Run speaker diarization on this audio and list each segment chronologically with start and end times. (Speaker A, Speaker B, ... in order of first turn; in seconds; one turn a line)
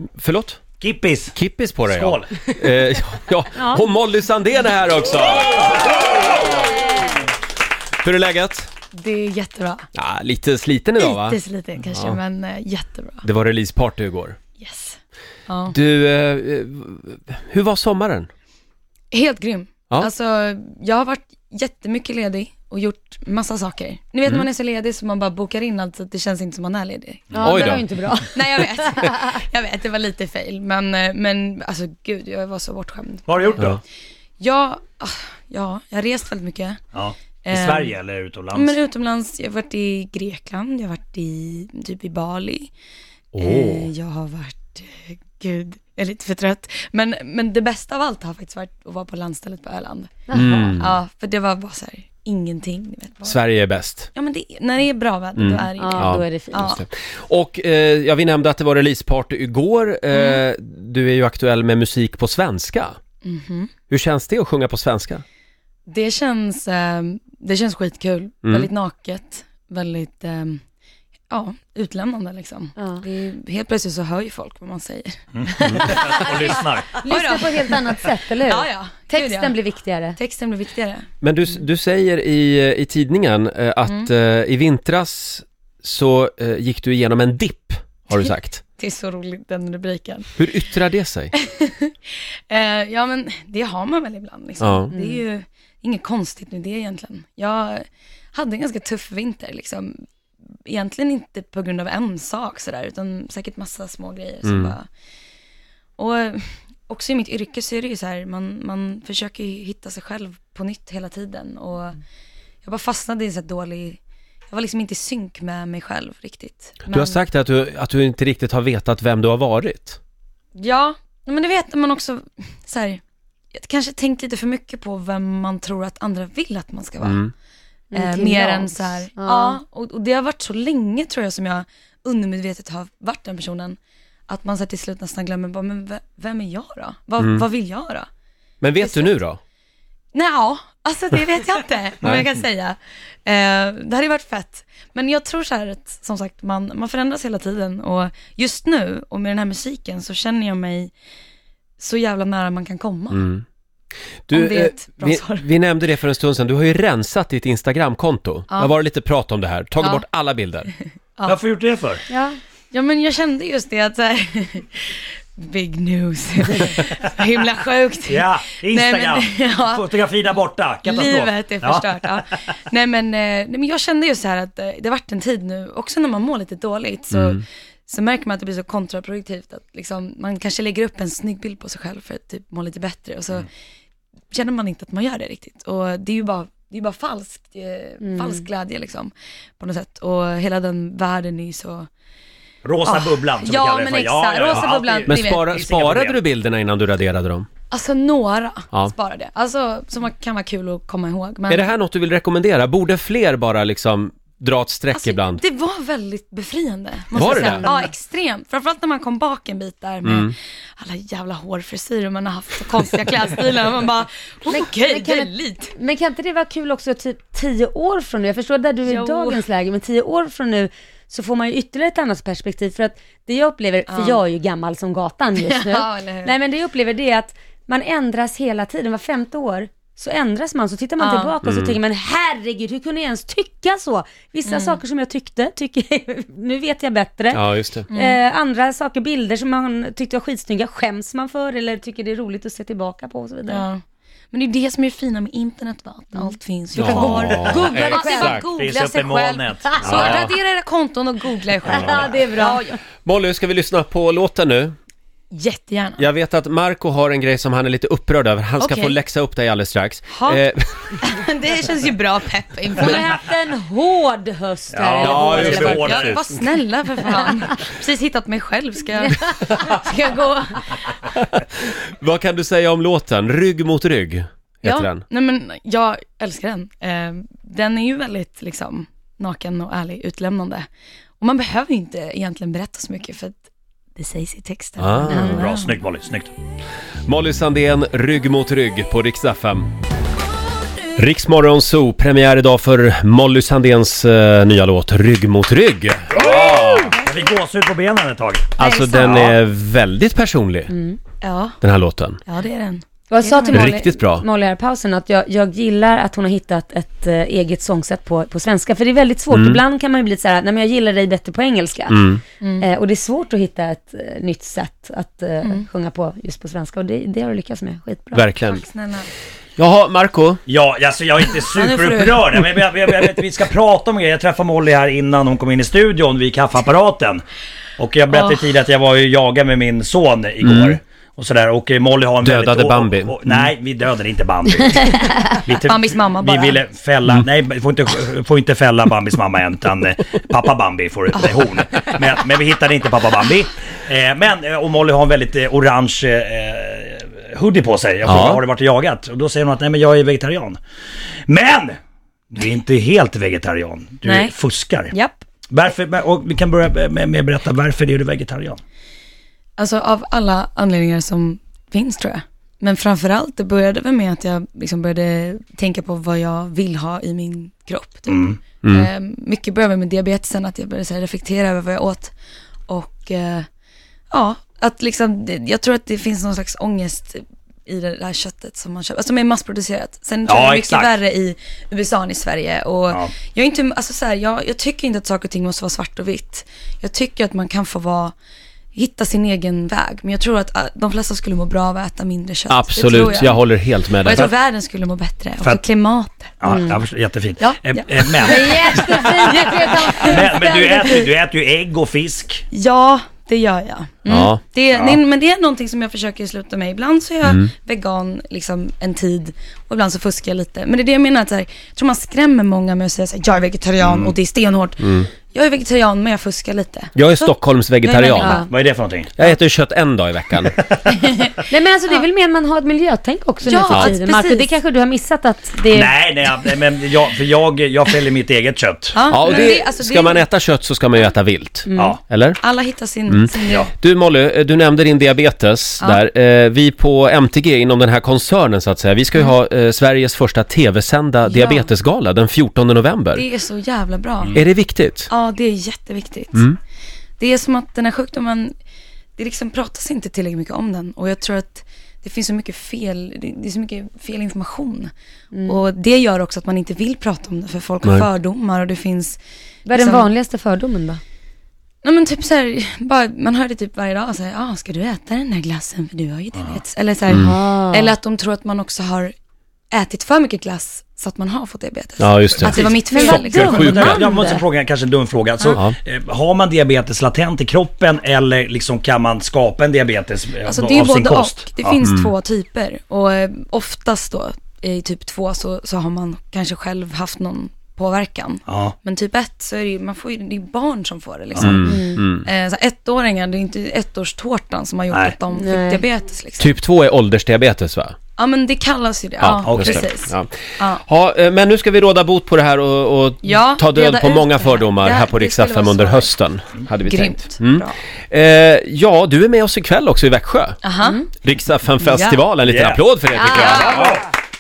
Speaker A: 0.1-0.6
Speaker B: 0.8-1.4
Speaker A: 1.4-6.0
Speaker B: 1.9-2.5
Speaker C: 3.6-3.9
Speaker A: 8.0-8.7
Speaker D: 8.9-9.9
Speaker A: 9.9-11.4
Speaker D: 11.0-13.2
Speaker A: 13.2-14.4
Speaker D: 14.6-15.8
Speaker A: 15.7-18.3
Speaker D: 19.1-33.8
Speaker C: 27.3-29.1
Speaker A: 27.4-27.9
Speaker B: 33.3-33.8
Speaker D: 34.4-36.8
Speaker B: 36.9-38.8
Speaker D: 37.4-37.9
Speaker D: 38.5-42.7
Speaker A: 43.3-43.9
Speaker D: 43.4-53.4
Speaker C: 50.3-50.8
Speaker A: 50.3-50.9
Speaker A: 53.2-54.1
Speaker D: 54.2-56.9
Speaker A: 55.4-63.0
Speaker C: 55.8-56.7
Speaker D: 60.1-60.4
Speaker D: 63.2-63.7
Speaker A: 63.9-65.2
Speaker D: 65.9-70.6
Speaker A: 68.4-68.7
Speaker D: 71.3-79.6
Speaker C: 72.8-73.0
Speaker B: 75.4-77.0
Speaker C: 76.0-80.2
Speaker D: 80.2-81.1
Speaker A: 81.2-88.6
Speaker D: 88.8-90.4
Speaker A: 90.4-91.3
Speaker D: 91.4-100.0
Speaker A: 94.6-94.9
Speaker C: 94.9-95.2
Speaker D: 100.7-104.9
Speaker A: 104.4-104.8
Speaker D: 106.0-112.0
Speaker D: 112.6-114.0
Speaker D: 114.5-117.3
Speaker A: 116.9-120.0
Speaker D: 120.6-123.0
Speaker D: 123.5-127.2
Speaker A: 127.0-127.3
Speaker C: 127.9-129.6
Speaker D: 127.9-133.8
Speaker D: 134.3-138.1
Speaker A: 137.2-137.4
Speaker A: 138.6-139.4
Speaker D: 138.8-139.2
Speaker D: 140.1-150.9
Speaker D: 151.8-153.2
Speaker A: 153.1-153.4
Speaker A: 154.3-160.7
Speaker D: 154.3-155.5
Speaker B: 161.3-162.0
Speaker C: 162.1-162.4
Speaker D: 162.7-169.9
Speaker B: 168.1-172.3
Speaker D: 170.8-183.5
Speaker A: 177.1-177.4
Speaker D: 184.3-191.9
Speaker C: 188.0-188.4
Speaker B: 192.6-196.2
Speaker D: 192.8-195.5
Speaker A: 195.1-197.5
Speaker D: 197.7-201.7
Speaker A: 201.5-205.4
Speaker D: 204.9-215.7
Speaker A: 207.2-207.7
Speaker C: 207.2-207.9
Speaker A: 210.0-210.3
Speaker C: 214.5-243.7
Speaker D: 218.8-219.4
Speaker D: 223.9-224.2
Speaker D: 225.4-226.3
Speaker D: 231.0-231.3
Speaker A: 231.4-231.8
Speaker D: 234.5-234.8
Speaker A: 237.3-237.9
Speaker D: 237.9-238.2
Speaker D: 243.5-243.8
Speaker D: 244.3-252.6
Speaker A: 246.8-248.5
Speaker B: 246.9-247.4
Speaker C: 247.0-248.4
Speaker B: 248.6-250.2
Speaker C: 249.6-249.9
Speaker A: 249.8-250.3
Speaker C: 251.6-252.8
Speaker A: 253.0-254.8
Speaker D: 255.3-256.0
Speaker A: 256.0-260.6
Speaker D: 258.6-259.0
Speaker D: 260.1-260.4
Speaker D: 261.0-263.2
Speaker C: 262.8-266.0
Speaker B: 264.7-266.3
Speaker D: 265.0-271.0
Speaker A: 265.0-266.3
Speaker C: 269.1-269.8
Speaker A: 271.4-275.0
Speaker D: 274.6-280.7
Speaker D: 281.2-283.4
Speaker D: 284.0-285.8
Speaker A: 284.8-285.4
Speaker C: 285.1-285.4
Speaker B: 285.2-286.3
Speaker A: 287.1-289.7
Speaker A: 290.9-296.9
Speaker B: 296.1-299.4
Speaker A: 298.6-300.7
Speaker D: 298.6-299.3
Speaker C: 300.7-301.0
Speaker D: 301.2-301.6
Speaker A: 301.6-302.2
Speaker D: 302.3-303.7
Speaker C: 303.1-312.0
Speaker A: 303.5-304.2
Speaker A: 309.3-309.6
Speaker A: 311.9-312.2
Speaker D: 312.4-312.7
Speaker C: 312.6-318.3
Speaker A: 318.1-318.6
Speaker D: 318.4-319.1
Speaker A: 319.6-320.4
Speaker B: 320.5-327.2
Speaker D: 321.5-322.5
Speaker B: 327.8-350.6
Speaker A: 330.4-330.8
Speaker A: 332.2-333.5
Speaker C: 335.0-335.3
Speaker D: 335.6-336.6
Speaker D: 341.1-341.4
Speaker A: 348.1-348.4
Speaker B: 351.3-351.8
Speaker B: 352.3-354.9
Speaker D: 354.0-354.3
Speaker B: 355.5-358.6
Speaker D: 359.6-372.1
Speaker B: 368.1-368.4
Speaker A: 368.6-368.9
Speaker D: 372.7-373.5
Speaker D: 374.1-388.1
Speaker B: 380.3-380.9
Speaker D: 388.8-396.7
Speaker A: 392.5-394.3
Speaker B: 396.4-398.9
Speaker C: 396.5-396.8
Speaker D: 397.4-401.1
Speaker C: 398.2-400.8
Speaker B: 399.9-402.5
Speaker D: 402.5-418.5
Speaker A: 404.1-404.4
Speaker B: 404.7-405.0
Speaker A: 407.2-407.5
Speaker B: 413.8-414.1
Speaker A: 414.8-415.1
Speaker A: 416.9-418.4
Speaker C: 418.1-418.5
Speaker B: 418.5-419.1
Speaker A: 419.2-420.6
Speaker D: 420.9-421.4
Speaker C: 421.5-425.9
Speaker D: 423.4-424.5
Speaker A: 423.7-423.9
Speaker B: 425.7-429.4
Speaker D: 428.9-430.2
Speaker A: 429.1-432.4
Speaker C: 431.7-432.0
Speaker D: 432.4-433.7
Speaker A: 433.1-443.2
Speaker D: 441.2-441.7
Speaker D: 443.1-444.4
Speaker A: 444.3-445.1
Speaker D: 445.1-446.5
Speaker D: 447.2-448.5
Speaker D: 449.2-454.9
Speaker C: 455.3-455.6
Speaker D: 455.4-459.2
Speaker A: 457.8-458.1
Speaker C: 459.7-461.0
Speaker D: 459.7-460.1
Speaker D: 461.8-469.1
Speaker C: 467.1-467.9
Speaker D: 469.7-474.2
Speaker A: 472.0-474.0
Speaker B: 472.4-481.8
Speaker C: 472.9-474.4
Speaker D: 480.4-496.6
Speaker A: 481.8-482.1
Speaker B: 488.5-488.7
Speaker B: 491.4-491.6
Speaker A: 491.4-492.3
Speaker C: 491.6-492.0
Speaker C: 495.3-495.8
Speaker A: 496.4-498.0
Speaker D: 498.2-500.8
Speaker A: 499.2-500.3
Speaker B: 499.4-499.9
Speaker A: 500.8-510.6
Speaker D: 503.2-506.1
Speaker D: 506.8-507.8
Speaker D: 510.6-511.1
Speaker A: 511.2-514.0
Speaker D: 511.9-512.2
Speaker B: 512.5-512.8
Speaker D: 513.1-514.0
Speaker B: 513.4-514.0